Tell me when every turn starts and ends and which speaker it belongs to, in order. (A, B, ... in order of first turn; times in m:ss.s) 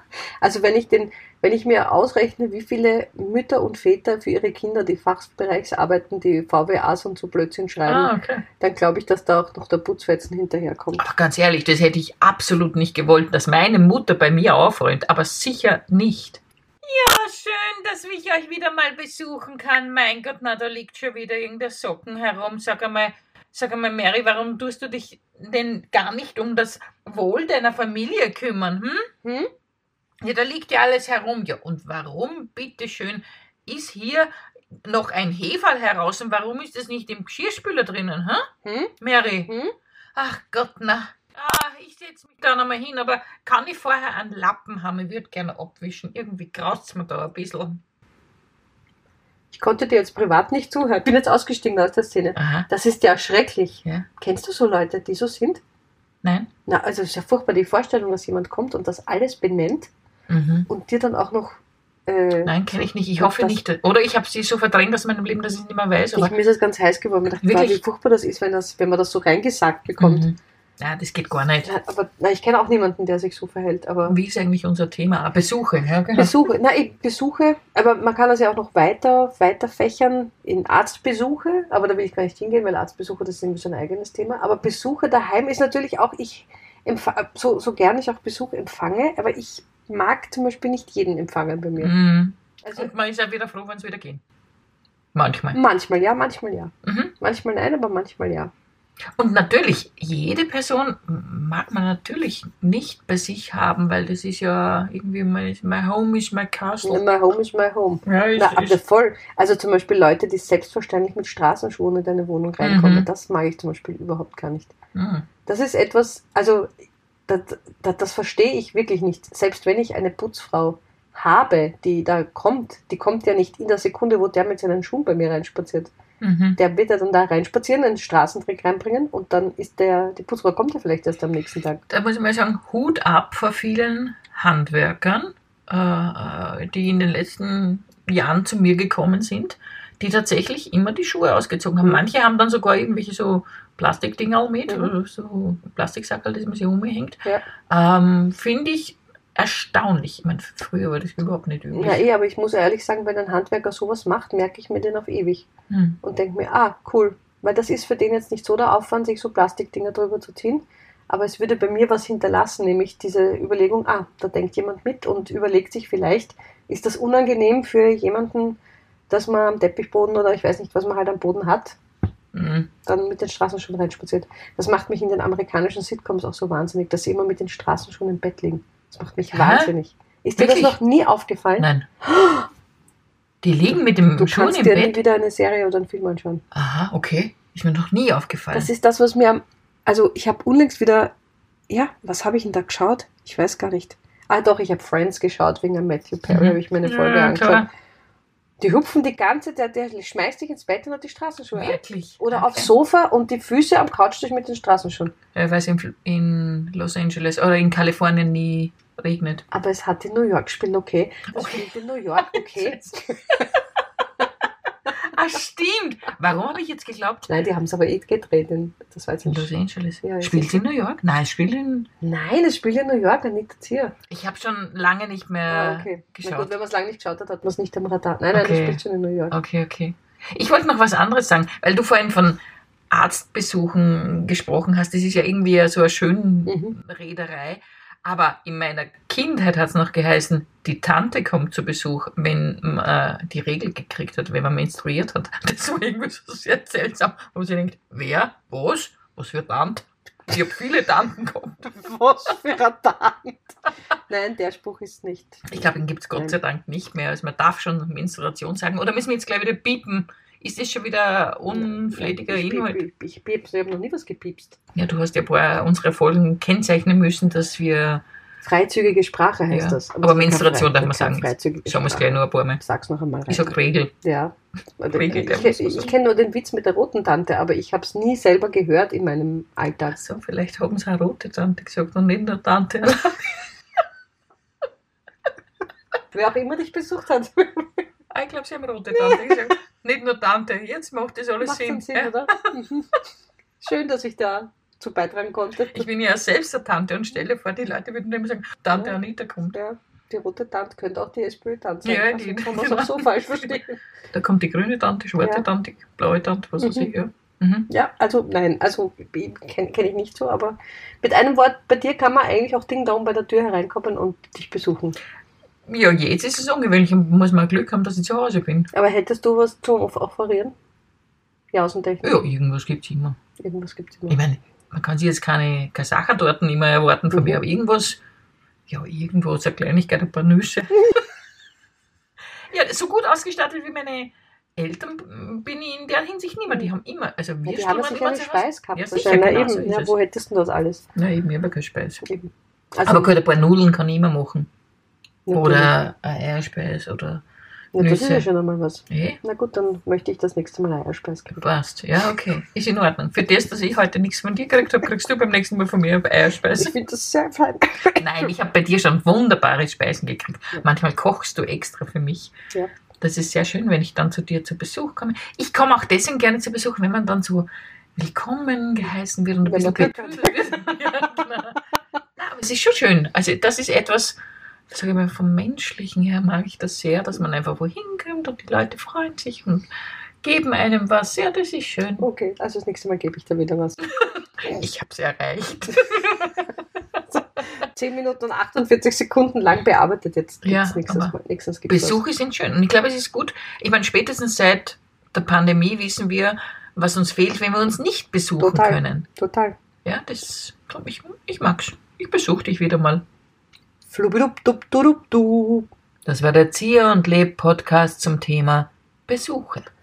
0:00.4-0:11.0 A
0:07.9-0:08.4 B
0:11.0-0:29.1 B
0:29.2-0:29.5 A
0:30.2-0:34.3 B
0:34.8-0:38.5 B
0:38.6-0:38.9 A
0:39.0-0:39.5 B
0:39.5-0:39.7 A
0:40.2-0:47.8 B
0:49.5-0:55.6 A
0:52.4-0:52.7 B
0:56.2-0:56.5 B
0:56.7-0:59.9 A
1:00.3-1:00.7 B
1:00.7-1:03.6 A
1:02.4-1:06.4 B
1:06.2-1:10.3 A
1:07.4-1:07.8 B
1:10.0-1:11.7 B
1:11.6-1:14.2 A
1:14.1-1:16.4 B
1:16.2-1:31.9 A
1:31.8-1:34.2 B
1:32.6-1:32.9 A
1:35.1-1:35.6 B
1:35.5-1:38.5 A
1:36.8-1:37.1 B
1:39.2-1:47.0 B
1:46.8-1:54.7 A
1:48.0-1:48.8 B
1:52.6-1:53.1 B
1:54.9-1:55.3 B
1:55.5-1:56.7 A
1:57.3-2:05.9 A
2:06.2-2:06.6 B
2:06.6-2:11.8 A
2:11.9-2:32.0 B
2:24.7-2:24.9 A
2:31.7-2:35.5 A
2:35.7-2:36.0 B
2:36.0-2:48.6 A
2:49.1-2:51.8 A
2:52.3-2:52.7 B
2:52.8-3:02.5 A
2:59.3-2:59.7 B
3:00.4-3:00.8 B
3:01.6-3:01.9 B
3:03.4-3:05.0 B
3:04.2-3:06.4 A
3:06.5-3:08.7 B
3:08.5-3:11.1 A
3:11.7-3:17.6 A
3:16.3-3:17.7 B
3:18.6-3:25.1 A
3:21.6-3:22.7 B
3:25.4-3:29.4 B
3:29.5-3:33.5 A
3:31.4-3:33.6 B
3:35.0-3:37.3 B
3:37.3-3:39.5 A
3:39.3-3:41.9 B
3:40.0-3:40.6 A
3:42.0-3:43.9 A
3:44.1-3:46.5 B
3:45.5-3:49.4 A
3:48.3-3:52.4 B
3:52.9-4:11.8 B
3:56.5-3:56.7 A
4:11.7-4:13.5 A
4:14.1-4:15.5 A
4:15.5-4:22.8 B
4:21.5-4:24.6 A
4:24.8-4:28.0 B
4:28.4-4:40.0 A
4:29.5-4:32.6 B
4:33.3-4:33.9 B
4:34.9-4:35.9 B
4:39.9-4:43.4 B
4:46.1-4:47.8 A
4:48.1-4:52.5 B
4:51.4-4:53.0 A
4:53.6-4:55.9 A
4:55.7-4:59.6 B
4:58.7-4:59.0 A
4:59.5-5:03.8 A
5:01.8-5:03.6 B
5:04.1-5:07.7 B
5:05.2-5:05.4 A
5:06.6-5:06.9 A
5:07.7-5:15.0 A
5:15.7-5:18.7 B
5:18.7-5:20.5 A
5:21.5-5:22.2 A
5:22.0-5:23.2 B
5:23.4-5:24.2 A
5:24.1-5:28.0 B
5:28.7-5:31.0 B
5:32.5-5:39.9 B
5:37.4-5:40.8 A
5:41.0-5:42.0 B
5:42.0-5:43.1 A
5:42.8-5:44.5 B
5:45.3-5:45.7 A
5:45.3-5:47.2 B
5:47.8-5:51.4 A
5:47.8-5:48.3 B
5:48.9-5:49.2 B
5:51.3-5:56.7 B
5:56.5-5:58.3 A
5:58.0-6:02.3 B
6:03.0-6:11.6 B
6:09.4-6:10.5 A
6:12.2-6:14.2 B
6:14.7-6:19.7 B
6:20.2-6:22.1 B
6:22.0-6:23.9 A
6:24.0-6:26.5 B
6:27.4-6:32.0 A
6:30.4-6:31.2 B
6:31.7-6:39.1 B
6:38.4-6:39.6 A
6:39.8-6:43.0 B
6:43.9-6:45.7 A
6:46.1-6:49.7 B